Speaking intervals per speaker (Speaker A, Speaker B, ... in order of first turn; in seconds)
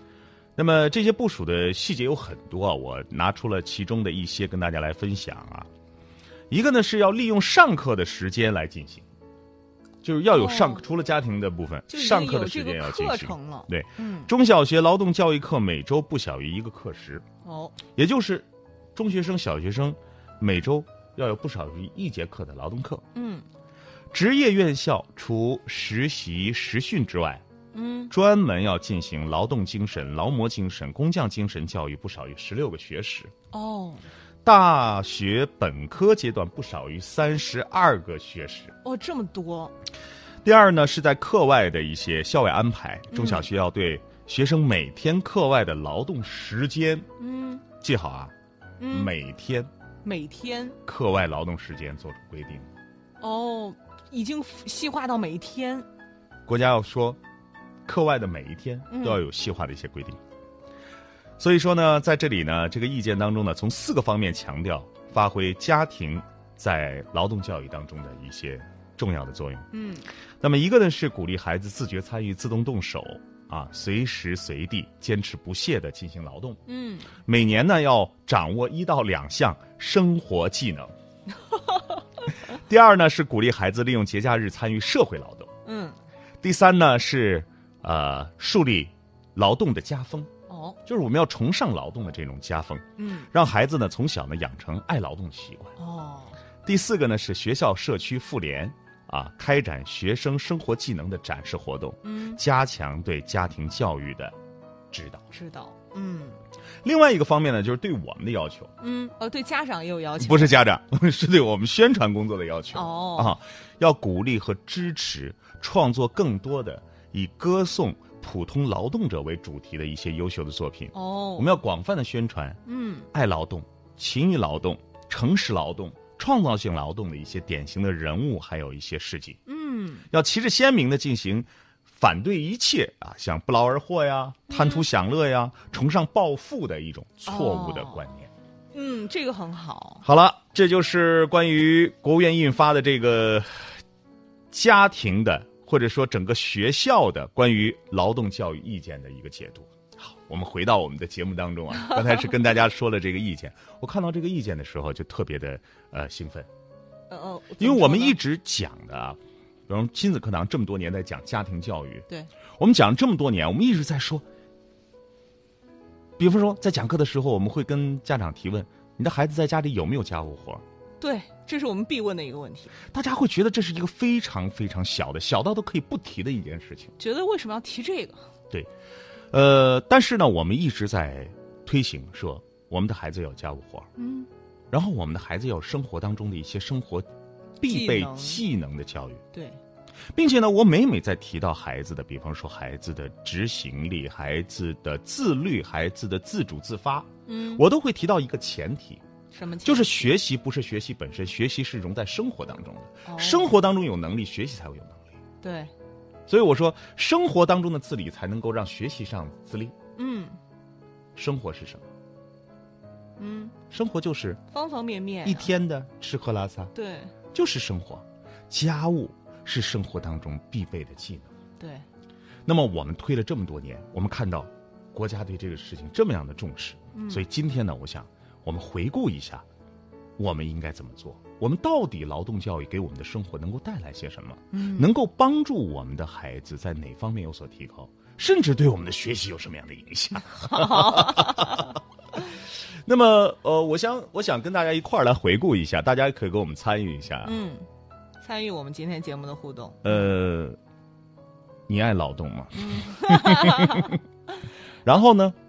Speaker A: 0.6-5.7, 6.5-9.0, 10.0-17.2, 17.9-23.0, 24.1-27.4, 28.1-33.3, 34.4-38.7, 40.4-47.1, 47.8-48.3, 48.9-49.7, 50.9-52.7, 56.5-57.2, 57.8-60.2, 61.4-69.7, 70.4-76.6, 77.2-80.9, 82.3-85.5, 86.4-90.3, 90.8-95.7, 96.6-104.3, 104.9-105.2, 106.8-108.7, 110.2-122.6, 123.1-129.4, 130.1-138.3, 140.0-143.8, 144.5-156.5, 157.6-162.1, 162.6-164.2, 166.2-170.6, 172.9-176.9, 179.3-183.9, 184.7-187.1, 187.6-189.2, 190.1-199.0, 199.6-205.1, 206.3-209.7, 211.1-211.8, 213.7-214.4, 215.2-216.7, 217.3-221.3, 222.4-229.4, 230.2-241.8, 242.3-247.4, 249.8-250.6, 251.7-254.0, 254.8-255.4
Speaker B: 10.3-10.8, 11.9-14.3, 17.4-17.8, 23.1-23.4, 27.7-28.1, 33.5-34.0, 38.8-39.7, 43.1-43.5, 47.2-47.6, 48.8-49.1, 50.0-50.8, 53.2-55.9, 58.9-59.2, 69.7-70.1, 76.7-77.1, 85.6-86.0, 90.5-90.8, 93.0-93.3, 95.8-96.4, 102.0-102.4, 105.3-106.4, 108.8-110.6, 112.7-113.4, 120.9-121.6, 122.7-123.1, 129.4-130.1, 134.5-134.8, 137.2-138.0, 138.7-140.0, 157.1-158.2, 171.0-172.7, 177.0-178.2, 184.0-184.3, 187.6-188.4, 189.3-189.6, 197.3-197.6, 199.3-200.1, 203.1-203.6, 205.4-205.7, 210.0-210.4, 213.2-213.6, 214.5-215.5, 216.7-217.1, 221.6-221.8, 226.9-227.2, 234.5-234.9, 240.3-241.8, 247.2-247.7, 248.2-250.1, 252.5-254.0